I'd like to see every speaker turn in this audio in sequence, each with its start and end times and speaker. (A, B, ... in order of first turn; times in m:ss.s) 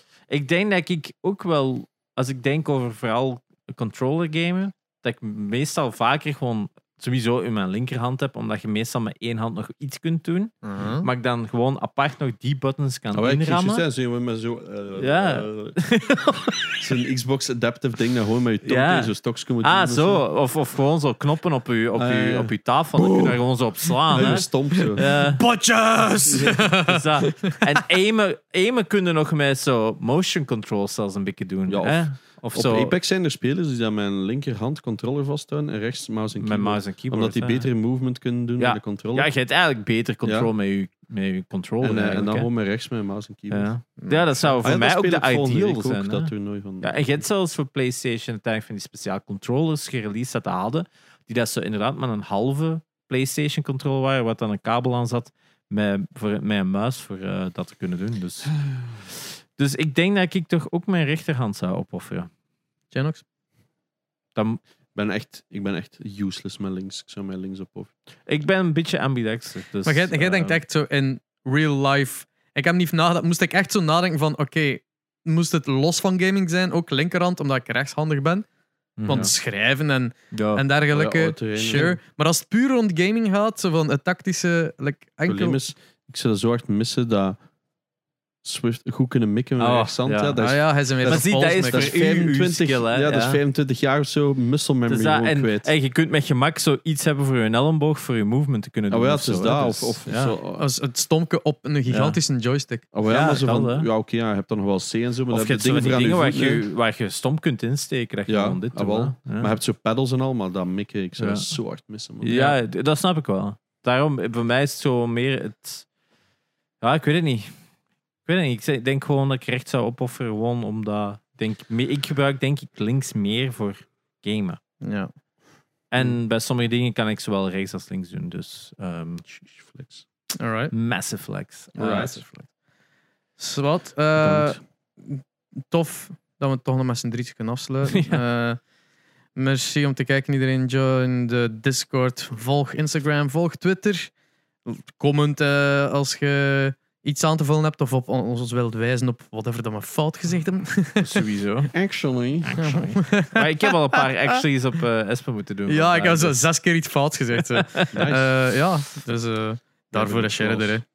0:00.3-0:13.8 A
0:10.6-0:11.1 B
0:13.1-0:15.9 C
0:15.0-0:16.8 A
0:16.6-0:20.2 C
0:18.6-0:25.4 A
0:22.0-0:25.0 C
0:24.2-0:27.8 B
0:26.0-0:33.0 A
0:26.3-0:26.8 C
0:31.7-0:39.3 C
0:36.4-0:37.7 A
0:38.6-0:42.5 A
0:40.2-0:40.5 C
0:41.8-0:43.7 C
0:43.5-0:58.6 A
0:44.0-0:44.6 B
0:44.6-0:47.2 C
0:59.6-1:02.3 A
1:02.9-1:03.2 B
1:04.4-1:04.6 A
1:05.0-1:07.9 C
1:08.3-1:10.6 A
1:09.8-1:18.5 B
1:19.0-1:19.3 A
1:19.0-1:25.6 B
1:20.3-1:20.6 A
1:20.9-1:22.0 C
1:25.3-1:27.4 C
1:28.4-1:35.7 C
1:29.6-1:30.4 A
1:30.4-1:32.2 B
1:31.0-1:33.4 A
1:34.9-1:40.4 A
1:38.9-1:40.7 C
1:40.6-1:42.8 B
1:41.9-1:42.2 A
1:42.9-1:46.6 C
1:43.1-1:43.9 A
1:45.3-1:49.5 A
1:48.3-1:52.6 C
1:51.2-1:51.5 A
1:52.2-1:55.9 A
1:56.8-1:57.5 A
1:58.3-2:04.6 A
2:04.8-2:05.1 B
2:05.9-2:09.2 A
2:09.3-2:10.0 C
2:10.4-2:10.7 B
2:10.7-2:12.3 A
2:11.8-2:12.2 C
2:11.8-2:12.5 B
2:13.4-2:18.6 B
2:14.2-2:14.6 C
2:17.9-2:18.2 A
2:19.4-2:24.1 B
2:24.6-2:31.2 B
2:31.0-2:31.7 A
2:31.7-2:32.8 C
2:32.4-2:36.5 A
2:32.6-2:34.4 B
2:35.7-2:40.8 B
2:37.5-2:38.0 A
2:37.9-2:38.3 C
2:40.0-2:40.7 C